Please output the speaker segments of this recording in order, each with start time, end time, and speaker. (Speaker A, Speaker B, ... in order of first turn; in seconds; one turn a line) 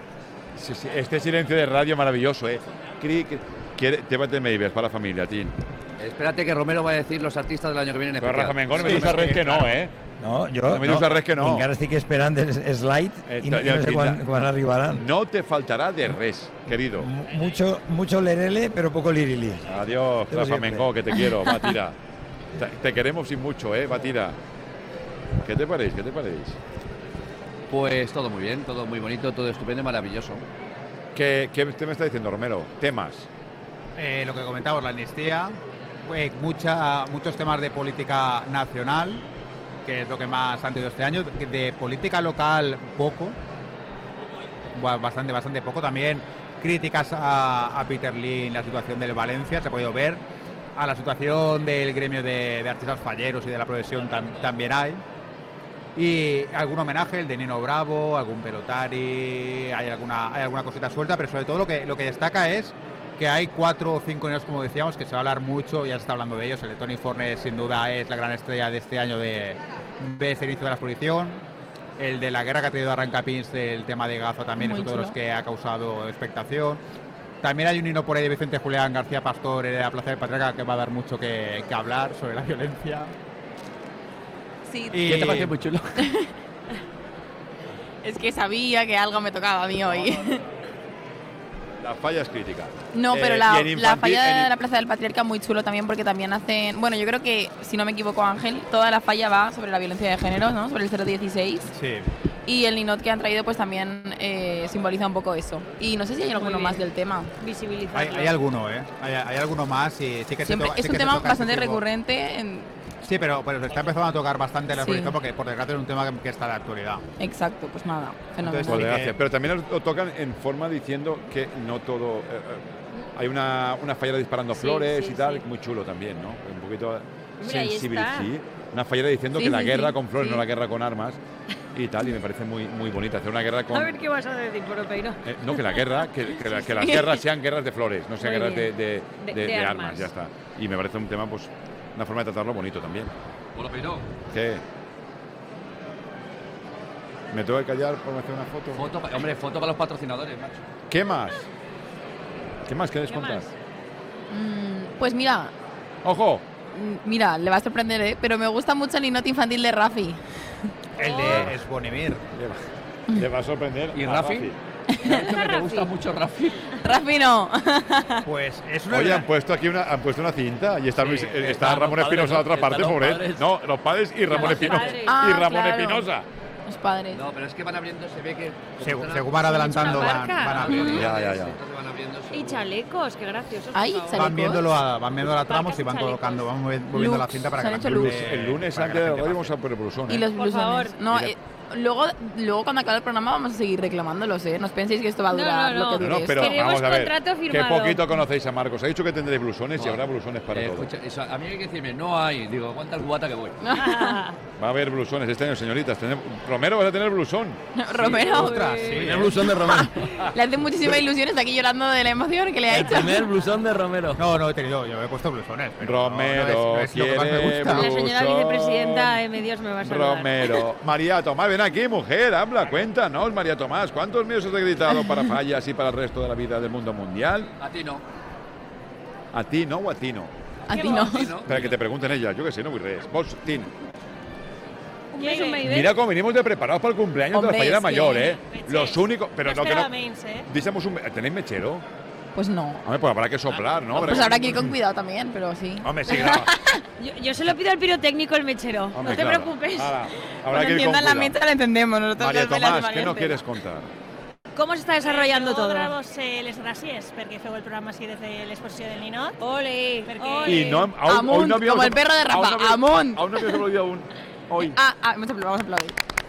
Speaker A: 0.5-5.5
Speaker B: 6.0-9.7
Speaker A: 8.2-9.9
Speaker C: 8.8-9.2
Speaker C: 10.2-15.0
Speaker A: 10.7-11.7
Speaker A: 13.3-14.3
Speaker A: 14.9-17.1
Speaker C: 16.9-19.6
Speaker A: 19.7-22.0
Speaker C: 20.3-20.9
Speaker A: 22.5-24.4
Speaker A: 25.4-26.6
Speaker B: 27.7-30.4
Speaker A: 31.1-33.3
Speaker D: 34.0-35.5
Speaker D: 36.0-39.2
Speaker D: 39.9-43.4
Speaker D: 44.7-50.2
Speaker D: 50.8-55.0
Speaker D: 56.0-71.4
Speaker D: 72.0-76.8
Speaker E: 74.6-75.2
Speaker D: 77.4-83.1
Speaker E: 84.7-85.2
Speaker D: 84.9-85.5
Speaker B: 85.0-86.0
Speaker E: 86.0-86.3
Speaker E: 88.0-90.4
Speaker A: 91.8-94.5
Speaker E: 92.9-101.7
Speaker D: 101.7-102.1
Speaker E: 102.5-107.3
Speaker F: 106.3-106.8
Speaker F: 107.4-108.4
Speaker D: 107.9-111.8
Speaker E: 110.4-112.7
Speaker D: 113.0-117.0
Speaker E: 114.7-115.2
Speaker E: 117.2-118.9
Speaker D: 118.4-119.2
Speaker A: 118.7-131.2
Speaker F: 124.5-125.4
Speaker F: 127.4-128.3
Speaker E: 129.3-130.4
Speaker A: 131.7-134.0
Speaker F: 133.7-135.8
Speaker A: 135.2-143.1
Speaker E: 136.6-137.2
Speaker F: 138.2-140.1
Speaker B: 143.5-144.1
Speaker A: 144.3-144.6
Speaker A: 147.3-148.9
Speaker B: 148.7-150.7
Speaker A: 150.9-151.5
Speaker A: 152.6-153.5
Speaker F: 153.1-153.5
Speaker E: 154.3-155.5
Speaker A: 156.0-156.4
Speaker E: 156.7-160.2
Speaker D: 161.0-162.2
Speaker F: 161.0-161.4
Speaker A: 161.2-161.6
Speaker A: 162.3-164.6
Speaker B: 163.9-164.5
Speaker E: 164.9-165.4
Speaker B: 165.0-166.7
Speaker F: 165.1-165.9
Speaker E: 166.8-168.2
Speaker D: 168.2-169.3
Speaker A: 168.9-176.2
Speaker G: 171.0-173.4
Speaker F: 174.3-175.2
Speaker E: 174.4-176.1
Speaker E: 176.7-177.2
Speaker B: 177.1-182.7
Speaker D: 178.8-180.9
Speaker F: 179.4-181.0
Speaker E: 180.7-181.1
Speaker A: 180.7-181.6
Speaker F: 182.3-184.6
Speaker E: 183.7-184.7
Speaker D: 184.1-189.5
Speaker F: 185.3-186.4
Speaker E: 186.9-188.2
Speaker A: 187.8-190.3
Speaker E: 190.1-196.7
Speaker F: 190.3-191.0
Speaker A: 191.1-191.3
Speaker F: 195.3-198.2
Speaker A: 196.0-200.9
Speaker B: 200.5-203.6
Speaker E: 203.6-204.2
Speaker F: 203.7-204.4
Speaker A: 204.6-207.6
Speaker E: 207.8-209.0
Speaker D: 208.2-209.4
Speaker F: 208.3-208.8
Speaker G: 208.9-210.2
Speaker E: 209.6-213.2
Speaker G: 212.7-214.2
Speaker D: 214.2-217.9
Speaker A: 215.8-219.2
Speaker F: 217.7-220.6
Speaker A: 219.8-227.5
Speaker B: 227.6-228.0
Speaker A: 229.3-230.3
Speaker E: 230.7-231.3
Speaker F: 230.8-231.0
Speaker B: 230.8-231.8
Speaker A: 231.4-233.7
Speaker F: 235.1-235.9
Speaker H: 235.2-235.6
Speaker A: 235.6-239.9
Speaker E: 237.3-238.3
Speaker H: 238.4-240.5
Speaker A: 240.5-241.8
Speaker E: 242.3-242.8
Speaker A: 242.8-244.8
Speaker E: 243.9-246.8
Speaker A: 245.8-246.5
Speaker F: 247.0-249.7
Speaker A: 248.9-251.4
Speaker E: 250.5-253.4
Speaker A: 252.2-253.9
Speaker F: 254.5-255.9
Speaker H: 255.0-259.4
Speaker F: 259.4-260.9
Speaker H: 260.1-260.8
Speaker A: 260.4-264.8
Speaker E: 261.0-263.6
Speaker E: 264.6-265.9